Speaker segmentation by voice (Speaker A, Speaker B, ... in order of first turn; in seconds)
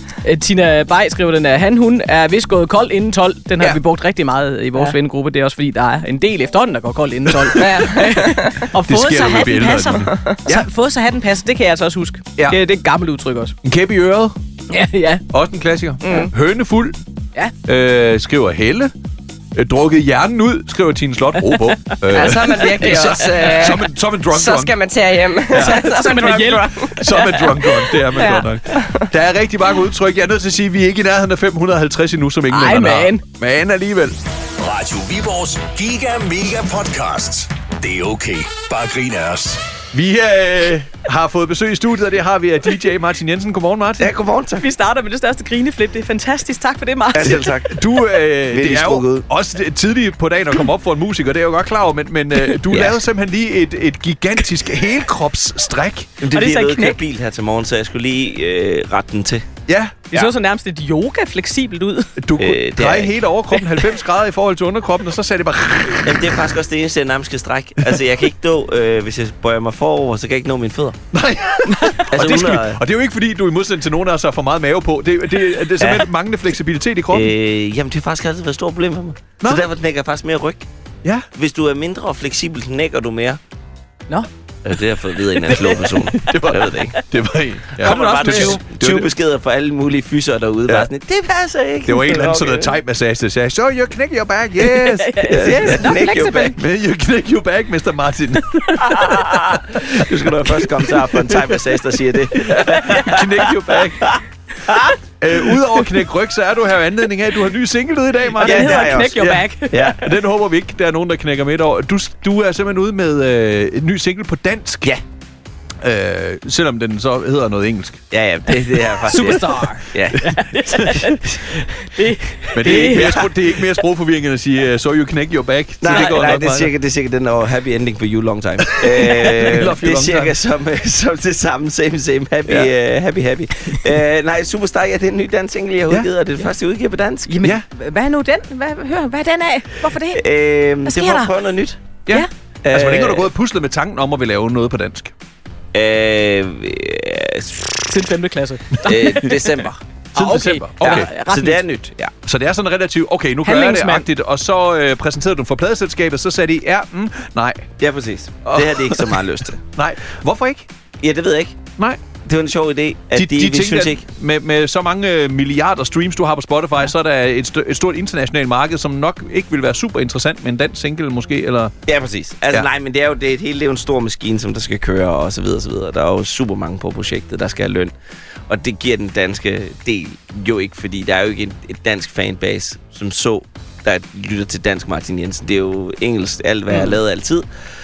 Speaker A: 0.2-13.5, 14.7-15.2, 21.9-23.5, 25.5-27.6, 32.5-33.2, 44.6-47.5, 56.3-57.0, 60.1-62.1, 63.5-63.8, 85.3-85.9, 87.8-88.6, 94.7-96.6, 98.5-99.2, 102.5-103.5, 108.4-110.0, 119.0-123.3, 125.9-126.2, 137.2-140.2, 140.8-141.4, 147.9-151.6, 153.4-154.1
Speaker B: 7.3-8.1, 8.8-10.7, 13.6-14.4, 15.3-17.0, 17.6-18.9, 19.5-24.7, 25.5-34.1, 39.9-44.1, 47.2-56.2, 59.7-60.0, 62.2-66.5, 71.1-77.3, 86.1-89.1, 91.8-101.7, 102.3-104.1, 105.2-115.0, 115.8-118.0, 120.0-121.2, 122.5-126.7, 129.0-130.3, 132.5-132.7, 142.1-145.1, 150.1-151.1, 152.2-157.7, 158.4-160.7, 161.8-162.0, 163.1-171.7
Speaker C: 7.6-8.6, 16.0-16.3, 22.1-29.1
Speaker D: 34.6-39.6
Speaker E: 44.0-44.7, 47.1-47.9, 48.5-49.2, 52.7-53.0, 56.2-59.5, 62.4-63.2, 66.0-71.0, 71.9-72.8, 75.8-76.1, 77.1-80.7, 81.3-83.4, 84.6-87.0, 87.7-92.8, 95.3-96.6, 98.9-105.9, 108.4-110.1, 118.1-121.6, 122.6-123.3, 125.8-137.3, 140.1-141.9, 142.6-143.3, 145.7-147.9, 148.8-149.8, 150.8-152.1, 157.8-159.6, 161.0-161.6, 162.1-164.0, 171.8-177.9, 178.5-187.5